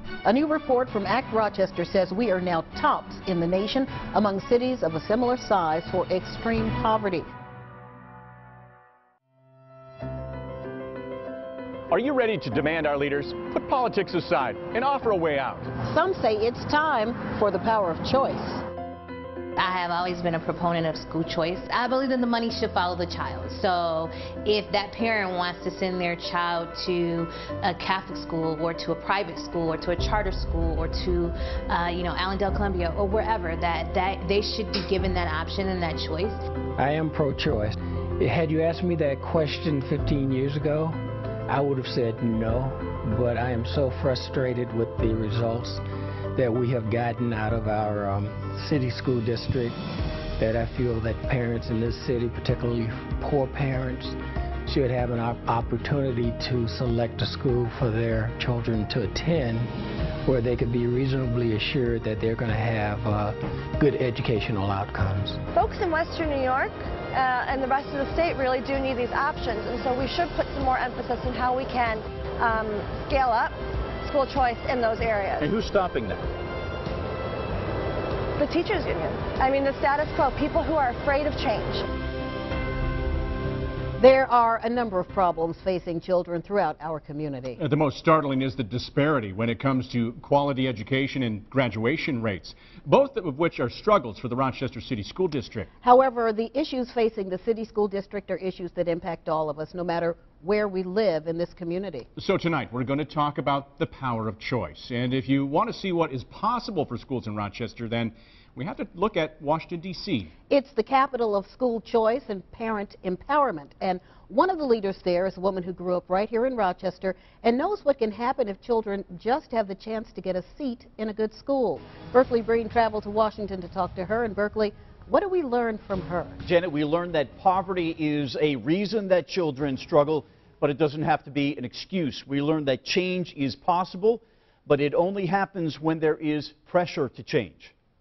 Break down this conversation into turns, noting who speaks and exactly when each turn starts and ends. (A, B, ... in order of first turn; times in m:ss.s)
0:00.2-0:07.3 A
0:11.9-0:15.7 B
0:15.8-0:18.6 A
0:19.6-0:36.4 C
0:36.8-0:45.8 D
0:46.3-0:49.8 D
0:50.4-0:59.7 D
1:00.2-1:05.4 D
1:05.5-1:15.4 E
1:15.4-1:16.2 F
1:18.4-1:21.8 E
1:24.0-1:27.6 A
1:27.6-1:35.7 B
1:35.8-1:42.1 A
1:42.2-1:50.3 B
1:50.5-2:06.4 A
2:06.4-2:17.7 F